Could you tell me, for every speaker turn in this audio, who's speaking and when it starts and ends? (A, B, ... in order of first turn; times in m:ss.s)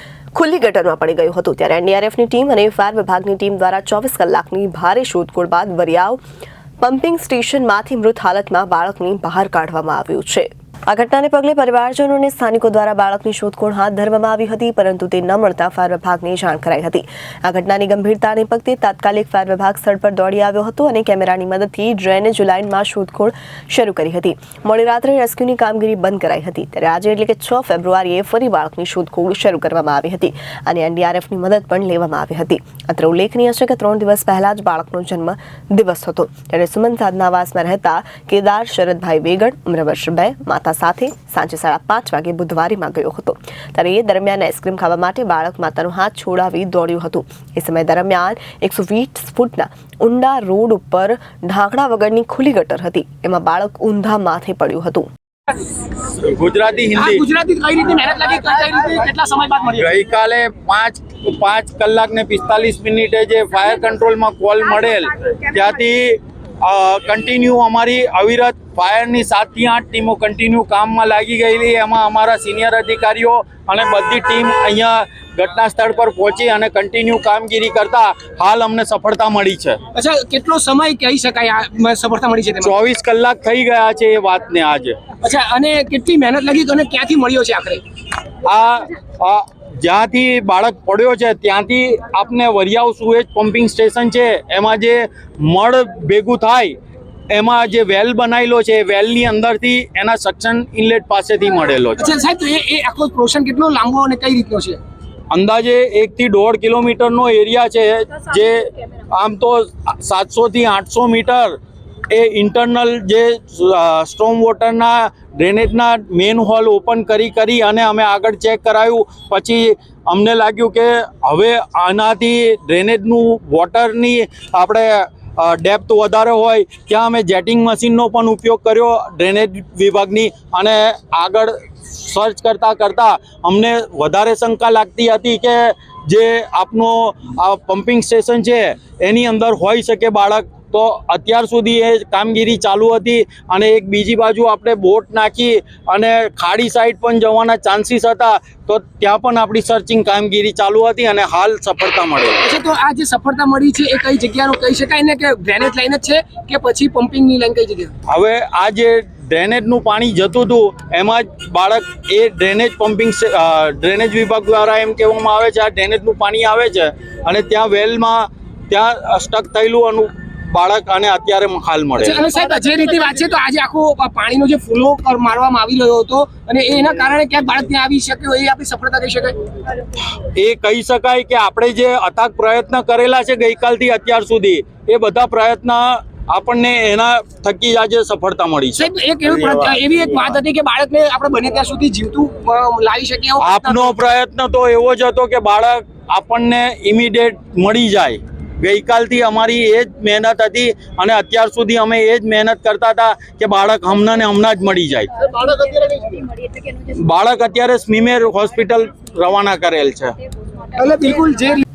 0:00.4-0:06.2 A
0:06.8-0:55.1 A
0:56.0-0:57.2 B
0:57.0-0:59.9 C
0:59.8-1:19.8 B
1:19.9-1:22.7 C
1:22.6-1:25.0 B
1:25.2-1:27.8 C
1:28.4-1:36.8 B
1:37.3-1:42.1 B
1:42.0-1:44.8 C
1:45.3-1:51.6 B
1:52.1-2:32.5 B
2:32.4-2:37.9 C
2:38.1-2:52.2 B
2:52.0-2:59.4 C
3:00.2-3:08.9 B
3:08.8-3:13.9 C
3:09.4-3:09.7 B
3:13.4-3:25.1 B
3:25.2-3:26.4 C
3:26.9-3:30.1 B
3:30.7-3:31.6 C